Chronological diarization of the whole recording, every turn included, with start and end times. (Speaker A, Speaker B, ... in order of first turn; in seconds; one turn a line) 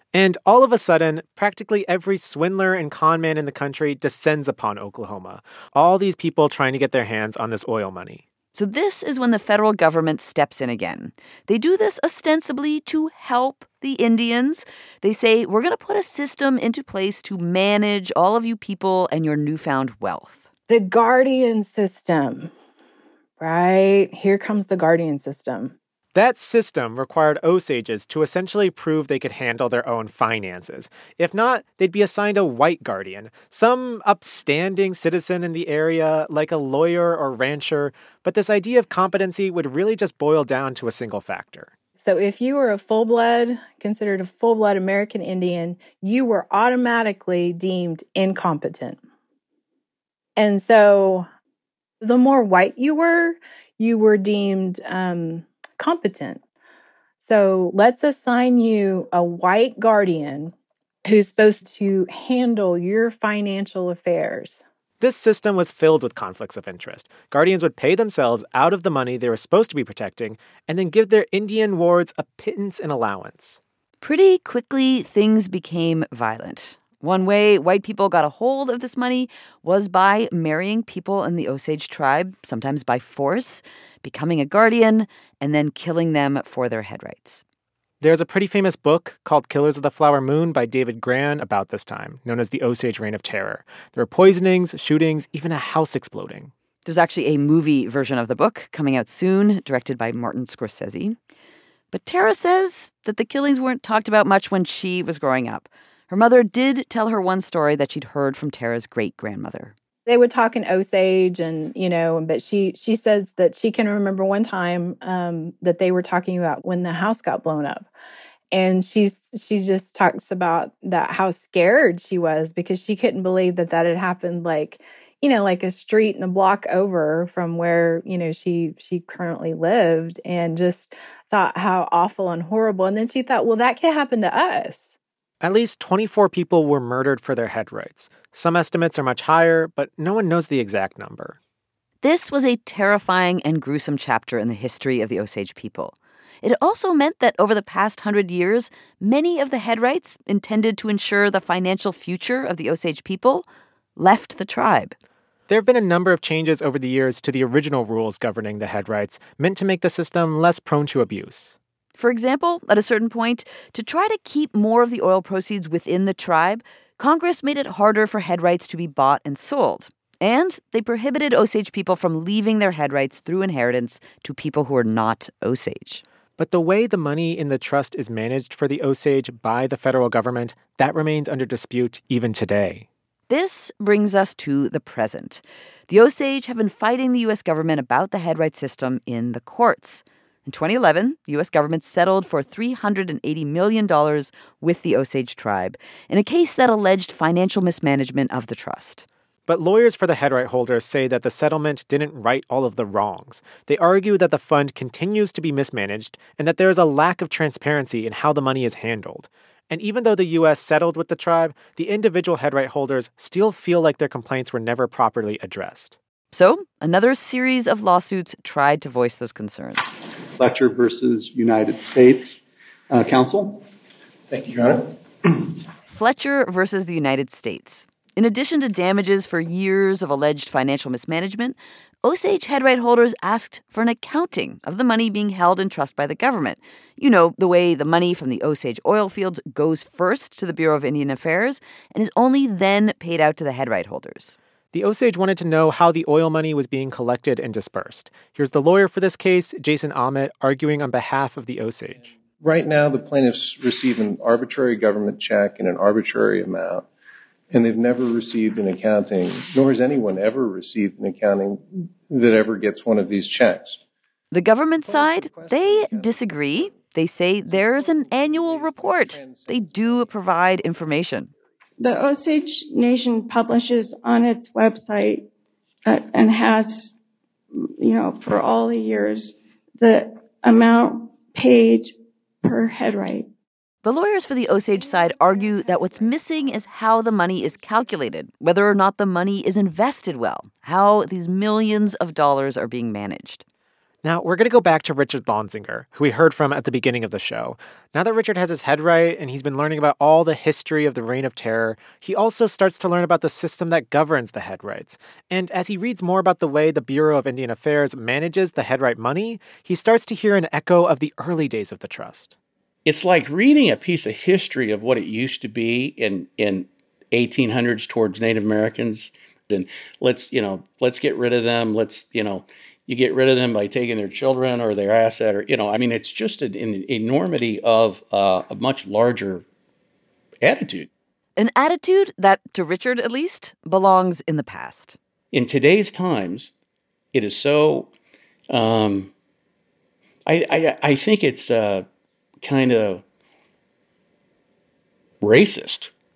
Speaker A: 0.1-8.2
Speaker B: 8.5-20.4
Speaker C: 20.7-22.5
Speaker C: 23.4-25.7
Speaker A: 26.1-41.7
Speaker C: 42.0-49.0
Speaker C: 50.4-51.3
Speaker C: 52.0-56.4
Speaker C: 57.2-60.5
Speaker C: 61.0-64.6
Speaker A: 65.0-73.6
Speaker B: 74.0-87.4
Speaker A: 88.0-96.5
Speaker B: 96.8-101.2
Speaker B: 101.9-109.7
Speaker C: 110.0-117.9
Speaker C: 118.5-134.9
Speaker A: 135.4-141.4
Speaker B: 142.0-154.9
Speaker A: 155.5-161.6
Speaker B: 161.9-176.0
Speaker A: 176.4-182.9
Speaker B: 183.3-199.1
Speaker A: 199.5-216.0
Speaker B: 216.3-219.9
Speaker D: 220.4-222.3
Speaker D: 222.9-223.6
Speaker E: 224.3-225.5
Speaker B: 225.9-244.4
Speaker A: 244.7-252.1
Speaker E: 252.4-256.9
Speaker E: 257.5-263.8
Speaker B: 264.3-271.3
Speaker E: 264.8-266.8
Speaker E: 267.4-270.2
Speaker F: 271.8-275.2
Speaker F: 275.9-276.9
Speaker F: 277.5-283.3
Speaker B: 283.8-293.4
Speaker A: 294.0-312.3
Speaker G: 312.9-329.4
Speaker G: 330.4-330.9
Speaker B: 331.4-335.0
Speaker G: 335.3-336.5
Speaker G: 337.1-337.9
Speaker G: 338.5-339.1
Speaker G: 340.2-341.9
Speaker G: 342.4-343.0
Speaker G: 345.2-345.9